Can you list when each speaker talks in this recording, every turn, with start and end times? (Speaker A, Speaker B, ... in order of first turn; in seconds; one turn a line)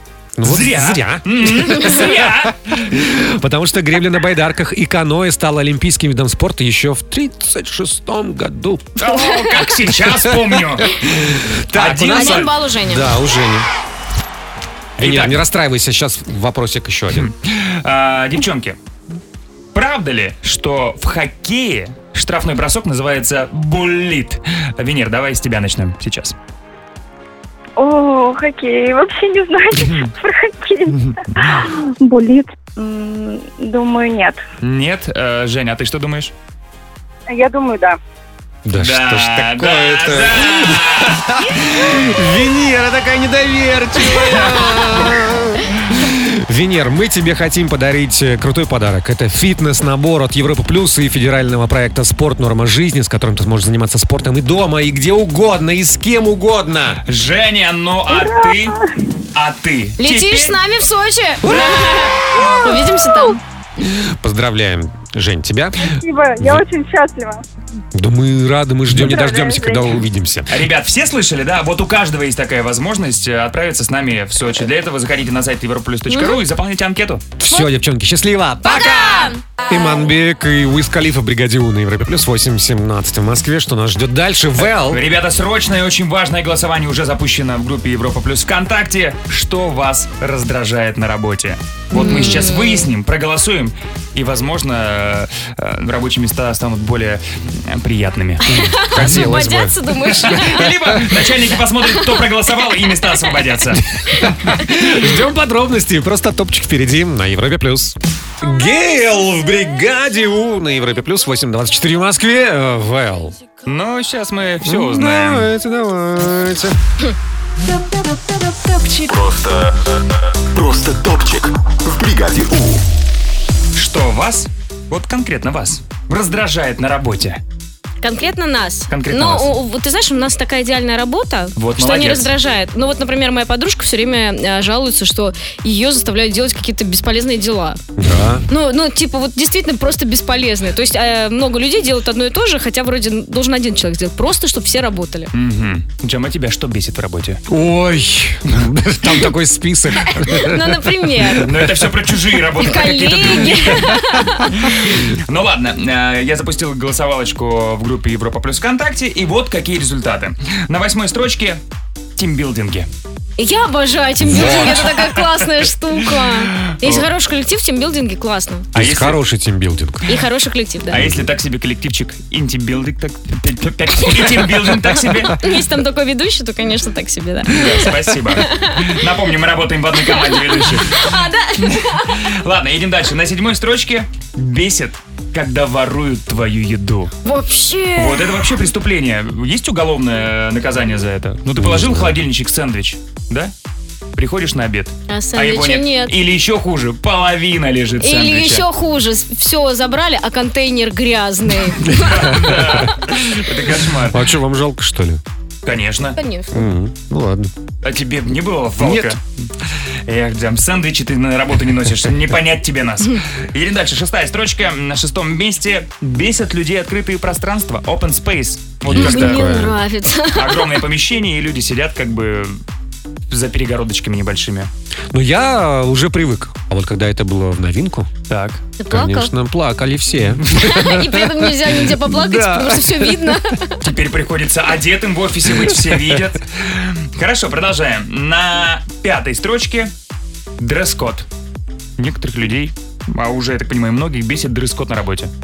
Speaker A: 0.4-9.0
Speaker B: 0.4-2.8
Speaker B: 9.0-10.9
Speaker C: 9.1-9.5
Speaker A: 10.1-13.7
Speaker B: 11.7-12.5
Speaker C: 12.1-13.1
Speaker B: 15.0-15.4
Speaker A: 15.0-17.3
Speaker B: 17.1-18.8
Speaker B: 19.8-26.4
Speaker D: 27.8-34.4
Speaker B: 34.6-36.3
Speaker E: 37.3-38.0
Speaker A: 38.6-57.0
Speaker B: 38.8-41.3
Speaker B: 57.1-58.8
Speaker E: 58.1-58.6
Speaker B: 59.4-60.6
Speaker C: 60.0-63.4
Speaker A: 63.8-66.6
Speaker E: 65.8-67.4
Speaker A: 67.9-70.6
Speaker E: 69.0-69.9
Speaker B: 70.5-77.3
Speaker C: 76.1-76.4
Speaker A: 77.4-85.0
Speaker C: 78.6-79.9
Speaker B: 84.6-99.3
Speaker C: 91.9-92.9
Speaker C: 98.5-100.6
Speaker A: 98.5-101.0
Speaker B: 100.2-103.8
Speaker A: 104.1-113.3
Speaker B: 113.7-115.5
Speaker A: 114.6-116.8
Speaker F: 119.1-119.8
Speaker F: 120.5-122.8
Speaker B: 123.8-127.4
Speaker C: 128.0-137.8
Speaker B: 128.9-129.5
Speaker B: 131.6-132.3
Speaker A: 138.0-138.4
Speaker C: 138.5-145.3
Speaker B: 145.3-147.4
Speaker A: 147.5-151.7
Speaker C: 150.2-151.5
Speaker B: 151.4-153.9
Speaker C: 152.6-154.5
Speaker B: 154.5-161.6
Speaker B: 162.2-162.9
Speaker C: 163.4-168.7
Speaker A: 164.2-164.9
Speaker B: 164.4-164.7
Speaker B: 166.6-167.1
Speaker B: 168.8-169.2
Speaker A: 168.8-170.2
Speaker C: 170.1-171.0
Speaker B: 170.9-175.4
Speaker A: 170.9-171.3
Speaker C: 175.3-178.9
Speaker B: 177.5-187.1
Speaker C: 180.0-182.2
Speaker C: 187.2-188.4
Speaker B: 188.0-193.5
Speaker A: 191.6-192.2
Speaker B: 194.2-198.7
Speaker C: 195.1-196.1
Speaker C: 198.0-202.4
Speaker B: 201.9-204.3
Speaker A: 202.3-202.7
Speaker A: 204.1-205.2
Speaker B: 205.7-206.2
Speaker C: 206.2-206.7
Speaker A: 206.5-207.5
Speaker B: 207.8-209.2
Speaker A: 208.8-209.2
Speaker B: 210.1-219.4
Speaker A: 218.9-219.8
Speaker C: 219.0-220.7
Speaker B: 220.3-222.6
Speaker B: 223.3-224.7
Speaker A: 225.1-228.1
Speaker B: 228.3-228.6
Speaker C: 228.8-229.3
Speaker A: 228.9-233.4
Speaker C: 230.5-233.8
Speaker B: 233.8-239.9
Speaker B: 240.6-241.3
Speaker B: 242.0-245.3